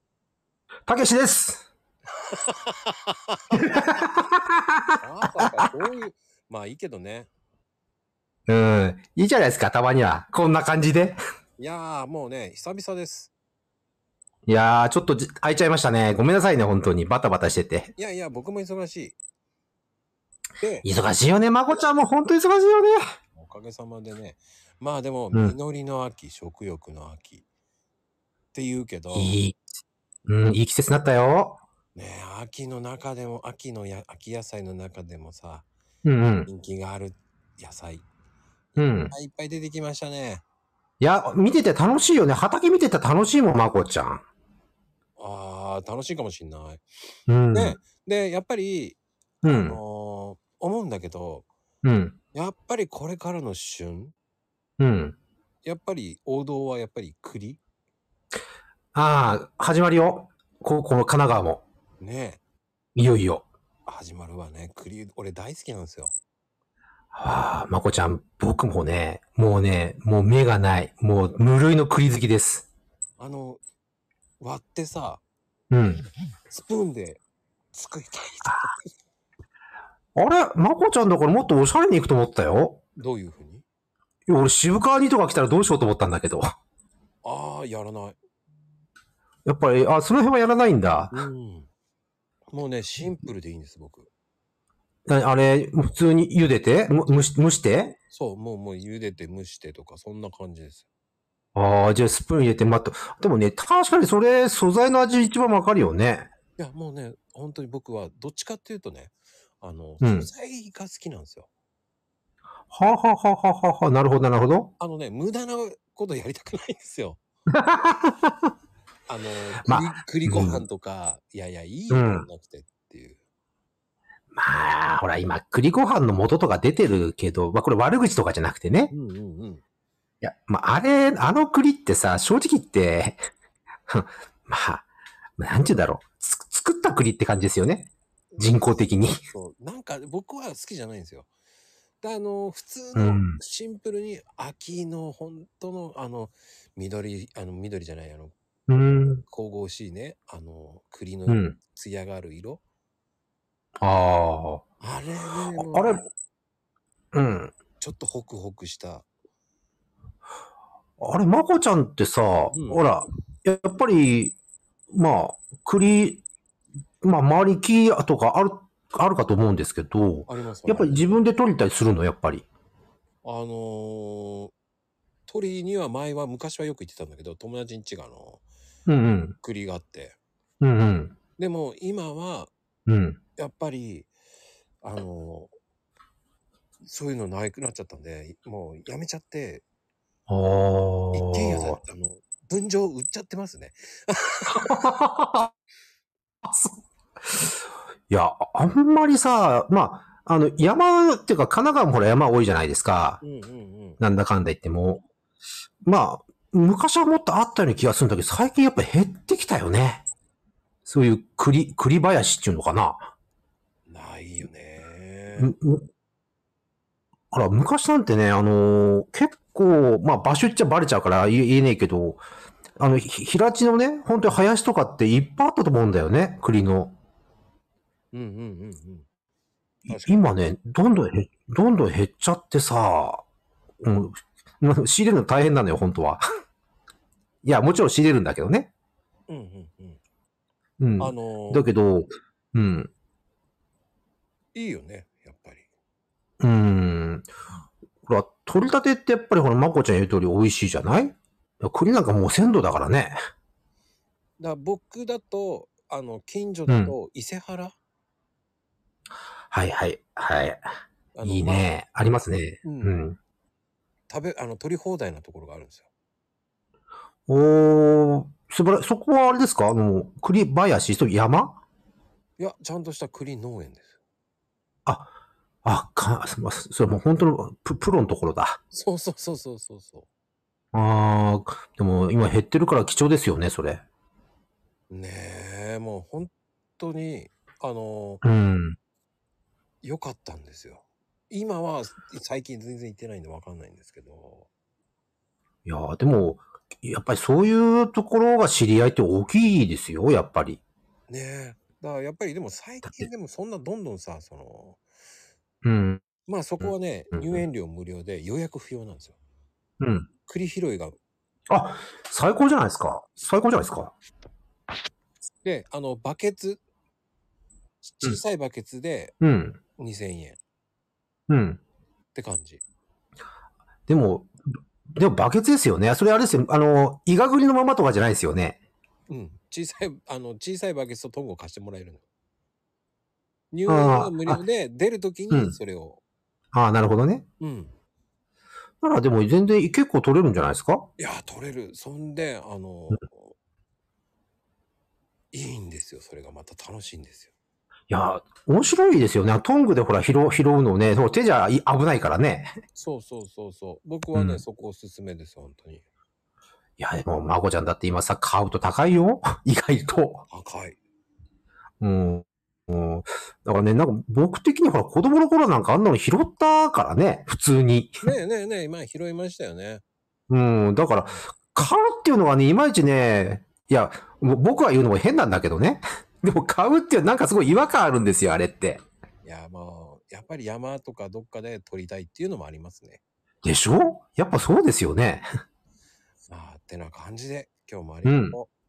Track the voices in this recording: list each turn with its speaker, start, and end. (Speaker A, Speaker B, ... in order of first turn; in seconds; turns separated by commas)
Speaker A: 0.9-1.7, Speaker B: 2.1-3.8, Speaker A: 3.5-5.0, Speaker B: 5.0-7.3, Speaker A: 8.5-11.2, Speaker B: 11.6-13.3, Speaker A: 14.5-17.9, Speaker B: 18.0-19.2, Speaker B: 20.6-20.9, Speaker A: 20.8-23.0, Speaker B: 23.4-27.4, Speaker B: 28.5-29.4, Speaker A: 29.1-29.6, Speaker A: 30.3-31.6, Speaker B: 31.9-35.7, Speaker A: 36.0-36.5, Speaker B: 36.5-38.1, Speaker A: 38.8-39.1, Speaker B: 38.8-40.4, Speaker A: 41.0-44.2, Speaker B: 45.2-46.8, Speaker A: 47.3-47.8, Speaker B: 47.5-51.5, Speaker A: 49.4-49.8, Speaker A: 51.8-52.2, Speaker B: 52.3-54.1, Speaker A: 54.8-55.2, Speaker B: 55.6-57.6, Speaker A: 58.9-61.6, Speaker B: 62.0-62.4, Speaker A: 63.0-63.5, Speaker B: 63.9-66.1, Speaker A: 67.1-72.7, Speaker B: 73.2-73.6, Speaker B: 74.4-75.2, Speaker A: 75.7-76.0, Speaker B: 76.5-77.2, Speaker B: 77.7-78.8, Speaker A: 80.2-82.8, Speaker B: 83.0-83.7, Speaker A: 84.3-86.5, Speaker B: 87.2-88.2, Speaker A: 89.5-91.2, Speaker B: 91.1-91.7, Speaker B: 92.5-94.1, Speaker A: 95.1-98.0, Speaker B: 98.0-100.9, Speaker A: 101.5-106.3, Speaker B: 106.6-111.5, Speaker A: 110.0-110.3, Speaker A: 112.7-114.7, Speaker B: 114.8-117.2, Speaker A: 117.5-118.5, Speaker B: 119.1-123.2, Speaker A: 119.6-120.6, Speaker A: 121.9-122.3, Speaker A: 124.3-128.9, Speaker B: 128.9-129.6, Speaker A: 130.2-133.2, Speaker A: 133.9-134.9, Speaker A: 135.4-139.2, Speaker B: 138.3-141.3, Speaker B: 142.0-148.3, Speaker A: 142.9-143.4, Speaker A: 148.7-149.2, Speaker B: 149.2-152.6, Speaker A: 151.3-151.6, Speaker A: 153.8-154.7, Speaker B: 154.8-156.1, Speaker A: 155.4-156.0, Speaker A: 157.1-157.5, Speaker B: 157.8-159.1, Speaker A: 161.0-164.3, Speaker B: 162.5-162.8, Speaker A: 164.9-166.2, Speaker A: 167.0-172.5, Speaker B: 170.3-171.2, Speaker B: 173.2-174.5, Speaker B: 175.3-178.4, Speaker A: 178.9-179.4, Speaker B: 179.4-180.2, Speaker A: 180.6-181.2, Speaker B: 181.4-182.5, Speaker A: 182.9-183.2, Speaker B: 183.4-184.1, Speaker B: 184.8-185.5, Speaker B: 186.8-189.6, Speaker A: 190.3-191.8, Speaker B: 191.1-194.9, Speaker A: 194.7-195.5, Speaker A: 196.4-197.5, Speaker A: 198.1-203.2, Speaker B: 203.2-204.0, Speaker A: 204.0-205.0, Speaker A: 205.8-210.1, Speaker A: 210.9-213.1, Speaker B: 213.9-215.6, Speaker A: 215.4-215.9, Speaker A: 217.3-222.2, Speaker A: 222.8-226.9, Speaker B: 228.1-229.1, Speaker A: 229.8-233.2, Speaker B: 229.9-230.2, Speaker A: 233.8-236.2, Speaker A: 237.4-238.7, Speaker B: 239.3-240.0, Speaker A: 240.8-242.9, Speaker B: 241.0-241.7, Speaker B: 244.5-245.7, Speaker A: 246.4-247.3, Speaker A: 248.1-253.2, Speaker B: 254.4-257.8, Speaker A: 256.7-256.9, Speaker A: 259.5-260.6, Speaker B: 261.1-261.7, Speaker A: 261.2-263.2, Speaker B: 262.6-263.0, Speaker B: 264.1-265.9, Speaker A: 267.3-271.6, Speaker B: 272.4-274.0, Speaker A: 275.6-278.6, Speaker B: 278.7-280.1, Speaker A: 280.7-283.8, Speaker B: 284.9-288.2, Speaker A: 288.2-288.8, Speaker B: 289.8-294.5, Speaker A: 295.7-300.6, Speaker B: 301.1-304.8, Speaker A: 305.6-306.0, Speaker B: 306.3-309.2, Speaker A: 306.6-307.4, Speaker A: 309.8-310.1, Speaker B: 310.3-311.0, Speaker A: 311.5-313.9, Speaker B: 315.4-316.6, Speaker B: 317.8-319.1, Speaker A: 319.2-319.6, Speaker B: 319.8-320.4, Speaker A: 321.3-321.6, Speaker B: 322.1-322.6, Speaker A: 323.9-324.3, Speaker A: 324.9-328.6, Speaker B: 329.1-332.0, Speaker B: 333.5-336.0, Speaker A: 333.7-334.4, Speaker A: 335.3-335.6, Speaker A: 336.5-337.2, Speaker B: 337.4-337.7, Speaker A: 338.8-340.9, Speaker B: 341.0-343.4, Speaker B: 345.3-347.3, Speaker A: 347.9-352.5, Speaker B: 352.8-355.8, Speaker A: 354.1-354.4, Speaker A: 356.8-360.2, Speaker B: 360.3-360.8, Speaker A: 361.8-368.1, Speaker B: 368.0-369.8, Speaker A: 370.3-378.8, Speaker B: 379.2-383.0, Speaker A: 383.4-385.3, Speaker B: 386.3-388.5, Speaker A: 388.1-388.4